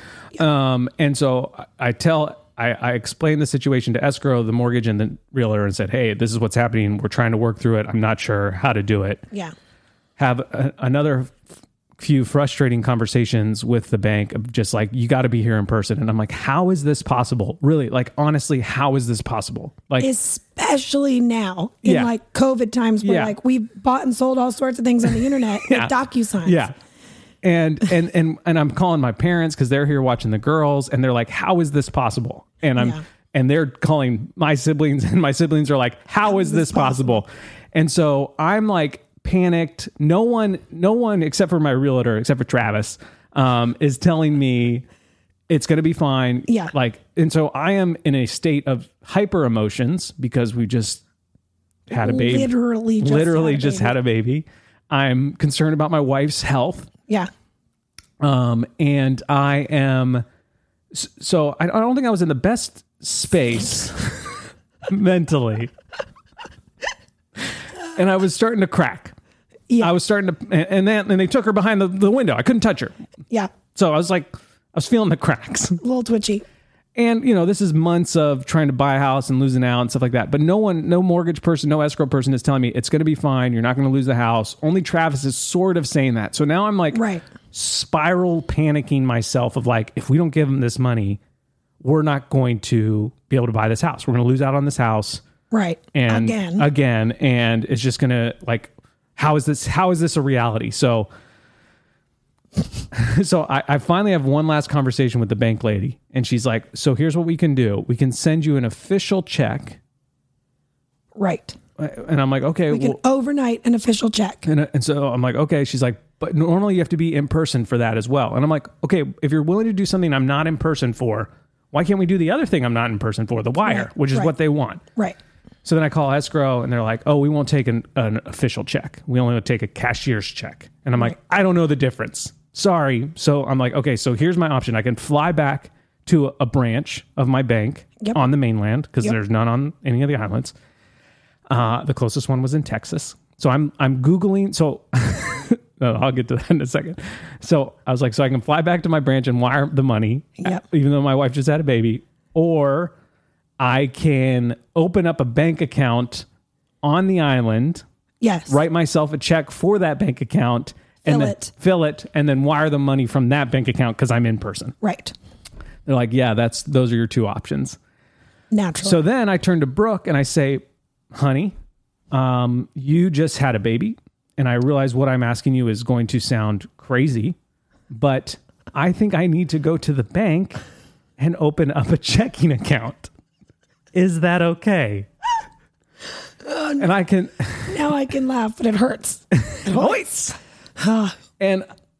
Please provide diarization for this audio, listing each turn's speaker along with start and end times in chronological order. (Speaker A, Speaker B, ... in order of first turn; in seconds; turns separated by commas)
Speaker A: 0.3-9.3, Speaker A: 10.2-11.4, Speaker A: 12.0-20.1, Speaker B: 20.0-26.6, Speaker A: 21.9-22.1, Speaker A: 23.0-23.3, Speaker A: 25.7-26.8, Speaker A: 27.4-44.9, Speaker B: 36.3-37.2, Speaker A: 45.5-51.0, Speaker B: 46.5-46.7, Speaker A: 51.9-56.9, Speaker B: 51.9-54.0, Speaker A: 58.2-60.2, Speaker A: 60.9-65.7, Speaker A: 67.9-69.1, Speaker A: 69.8-72.9, Speaker A: 73.7-75.8, Speaker B: 75.8-76.4, Speaker A: 76.9-91.2, Speaker B: 86.9-87.2, Speaker A: 91.8-95.2, Speaker B: 95.5-96.7, Speaker A: 95.9-101.1, Speaker A: 102.9-109.8, Speaker B: 111.1-111.6, Speaker A: 111.8-113.0, Speaker B: 112.7-114.4, Speaker A: 114.4-124.8, Speaker B: 123.7-124.3, Speaker A: 125.6-140.5, Speaker A: 141.5-152.9, Speaker A: 153.6-156.3, Speaker A: 156.8-157.8, Speaker B: 158.2-158.6, Speaker A: 158.5-164.8, Speaker B: 161.1-161.5, Speaker B: 164.8-165.1, Speaker A: 165.9-167.8, Speaker B: 168.5-169.0, Speaker A: 168.8-171.6, Speaker A: 172.1-177.4, Speaker A: 177.9-180.6, Speaker A: 181.2-183.1, Speaker A: 183.9-185.1, Speaker B: 186.4-186.9, Speaker A: 186.8-187.9, Speaker B: 187.7-190.1, Speaker A: 189.3-190.4, Speaker B: 190.8-191.2, Speaker A: 191.4-191.7